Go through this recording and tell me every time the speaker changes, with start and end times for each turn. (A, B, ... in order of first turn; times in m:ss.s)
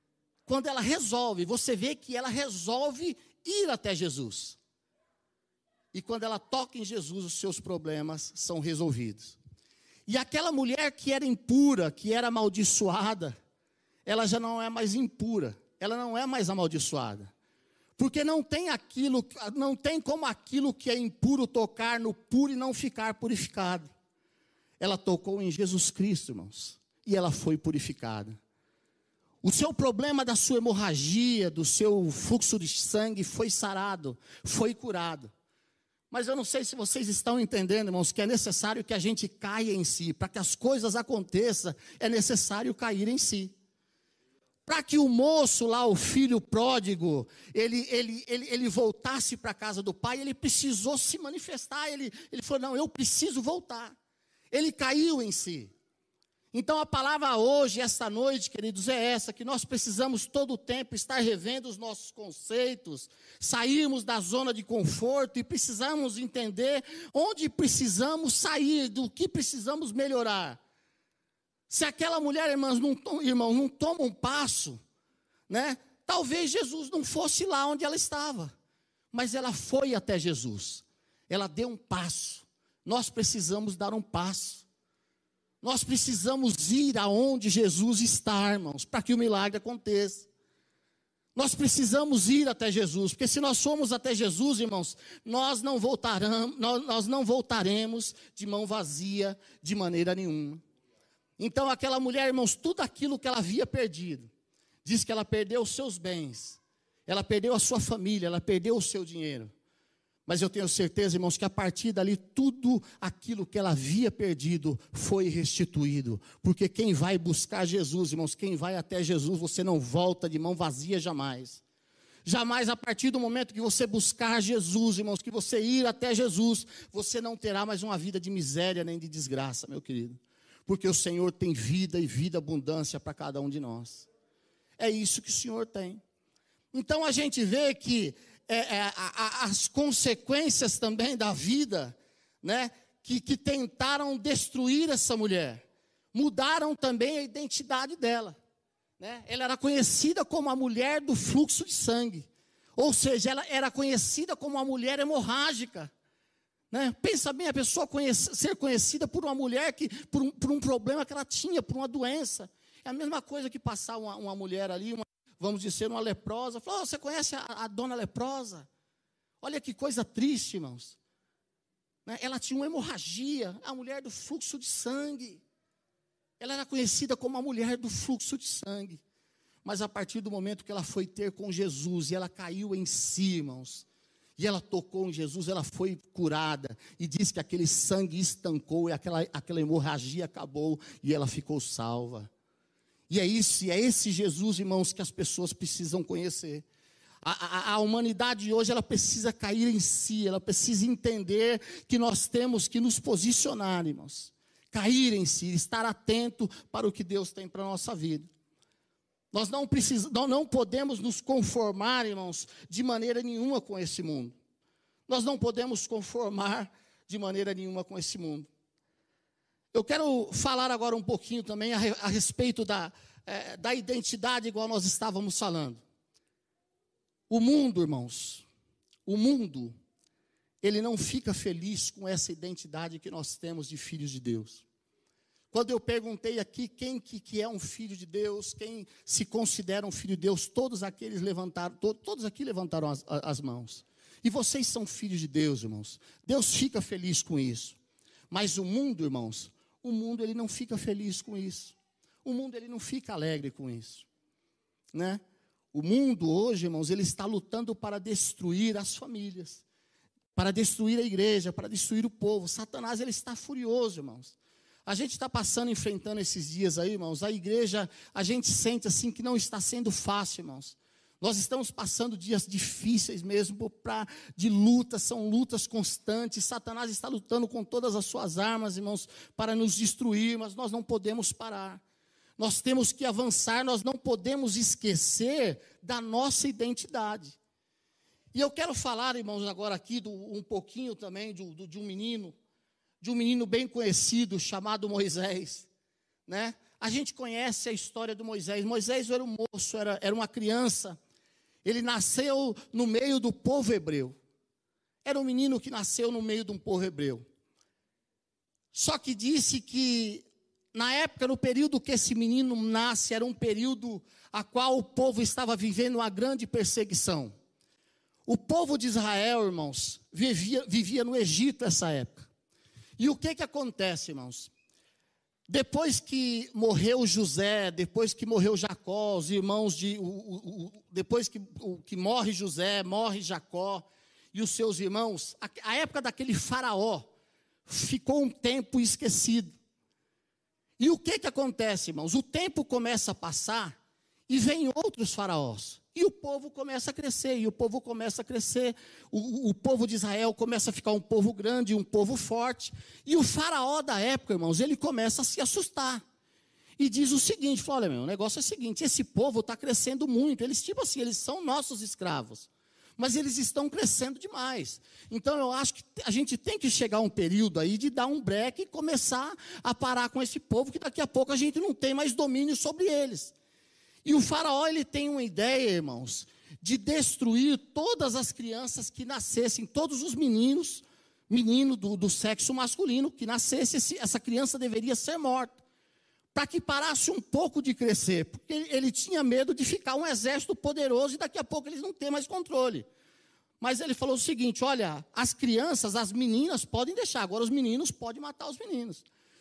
0:00.5-0:04.6 A
0:05.9-0:09.4 A
0:10.1-0:13.4 A
0:14.1-0:17.3 A
0:18.0-0:23.9 A
0:24.8-0:28.4 A
0:29.4-0:35.3 A
0:36.1-0:43.6 A
0:44.7-0:54.0 A
0:54.5-0:55.7 A
0:56.5-1:10.6 A
1:11.7-1:14.8 A
1:15.5-1:18.5 A
1:19.1-1:24.6 A
1:25.6-1:30.3 A
1:31.4-1:40.6 A
1:41.4-1:44.3 A
1:44.8-1:49.5 A
1:50.3-2:01.6 A
2:02.2-2:14.1 A
2:14.8-2:16.0 A
2:16.7-2:28.4 A
2:29.0-2:35.9 A
2:36.7-2:48.7 A
2:49.4-2:51.0 A
2:52.1-2:55.4 A
2:56.4-2:59.0 A
2:59.6-3:03.9 A
3:04.4-3:12.3 A
3:13.1-3:16.6 A
3:17.2-3:28.3 A
3:29.3-3:34.4 A
3:35.1-3:38.5 A
3:39.7-3:45.8 A
3:47.3-3:48.4 A
3:49.1-3:49.7 A
3:50.6-3:54.6 A
3:55.5-4:07.8 A
4:08.3-4:14.1 A
4:14.9-4:15.2 A
4:15.7-4:19.6 A
4:20.4-4:41.8 A
4:42.4-4:47.4 A
4:48.3-4:52.3 A
4:53.0-4:55.7 A
4:56.3-5:01.0 A
5:01.6-5:04.2 A
5:05.0-5:07.2 A
5:08.7-5:17.3 A
5:18.3-5:22.3 A
5:23.0-5:24.5 A
5:25.5-5:37.1 A
5:37.7-5:39.5 A
5:40.8-5:43.8 A
5:44.3-5:56.0 A
5:56.8-6:13.3 A
6:14.0-6:25.6 A
6:26.3-6:32.9 A
6:33.6-6:39.0 A